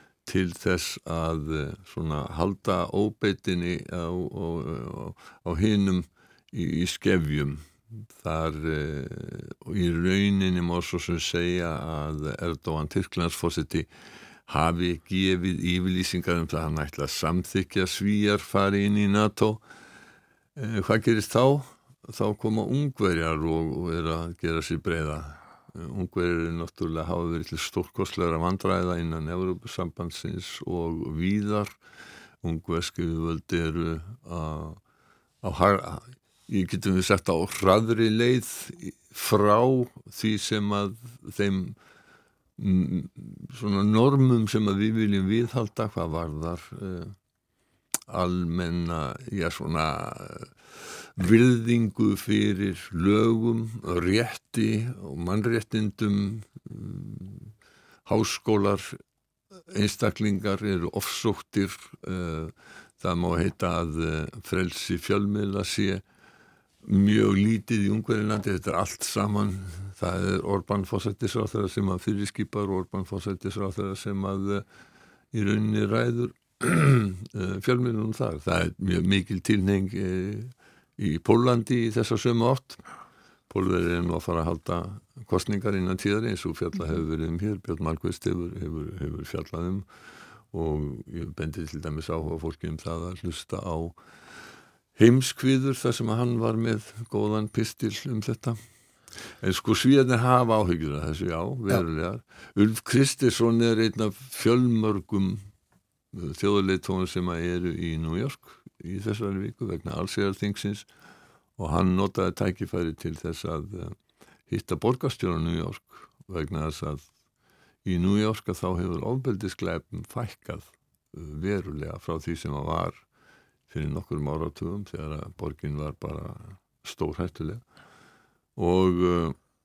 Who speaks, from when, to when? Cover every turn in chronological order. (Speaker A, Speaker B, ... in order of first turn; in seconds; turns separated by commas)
Speaker A: 0.3-13.9, Speaker A: 14.5-19.6, Speaker A: 20.6-31.8, Speaker A: 32.4-34.8, Speaker A: 35.4-41.8, Speaker A: 42.6-47.1, Speaker A: 48.1-57.5, Speaker A: 58.0-59.0, Speaker A: 59.7-66.0, Speaker A: 66.8-74.7, Speaker A: 75.3-82.8, Speaker A: 83.5-89.9, Speaker A: 90.5-94.0, Speaker A: 95.0-98.6, Speaker A: 99.4-105.5, Speaker A: 106.1-110.9, Speaker A: 111.6-114.0, Speaker A: 114.5-117.1, Speaker A: 117.8-123.0, Speaker A: 123.7-127.6, Speaker A: 128.6-129.4